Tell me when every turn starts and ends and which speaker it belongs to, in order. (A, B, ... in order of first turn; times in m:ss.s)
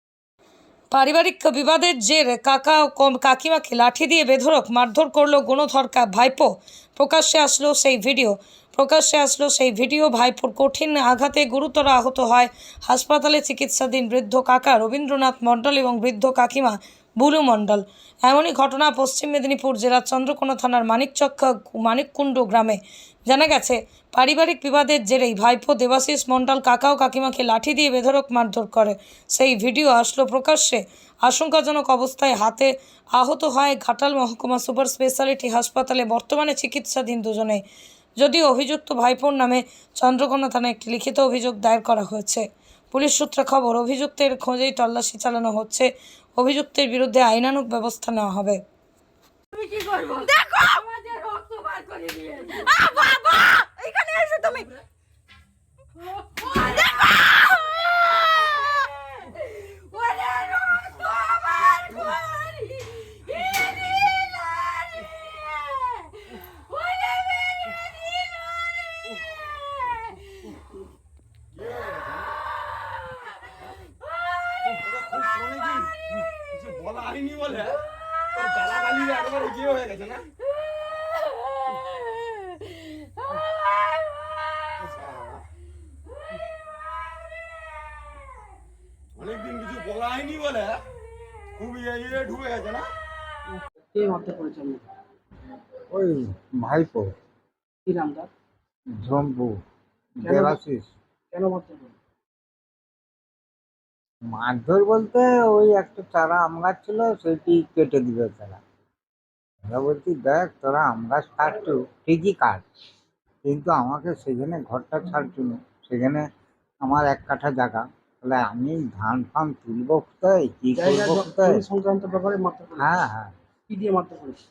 0:00.9-0:37.6 A
0:38.2-0:48.6 A
0:49.6-0:54.7 B
0:54.0-0:54.5 A
0:58.6-0:58.9 B
0:59.9-1:02.9 B
1:11.6-1:12.3 C
1:14.8-1:16.0 C
1:16.5-1:17.8 C
1:18.3-1:20.2 C
1:25.0-1:25.3 C
1:29.2-1:30.8 C
1:31.6-1:32.9 C
1:33.9-1:34.8 D
1:35.9-1:37.1 E
1:37.9-1:38.3 D
1:38.9-1:39.6 E
1:40.2-1:40.9 E
1:40.2-1:40.6 D
1:41.3-1:41.9 D
1:44.3-1:48.6 E
1:49.7-1:52.6 E
1:53.4-1:56.3 E
1:56.8-2:01.6 E
2:00.7-2:02.9 D
2:02.8-2:03.3 E
2:03.7-2:04.4 D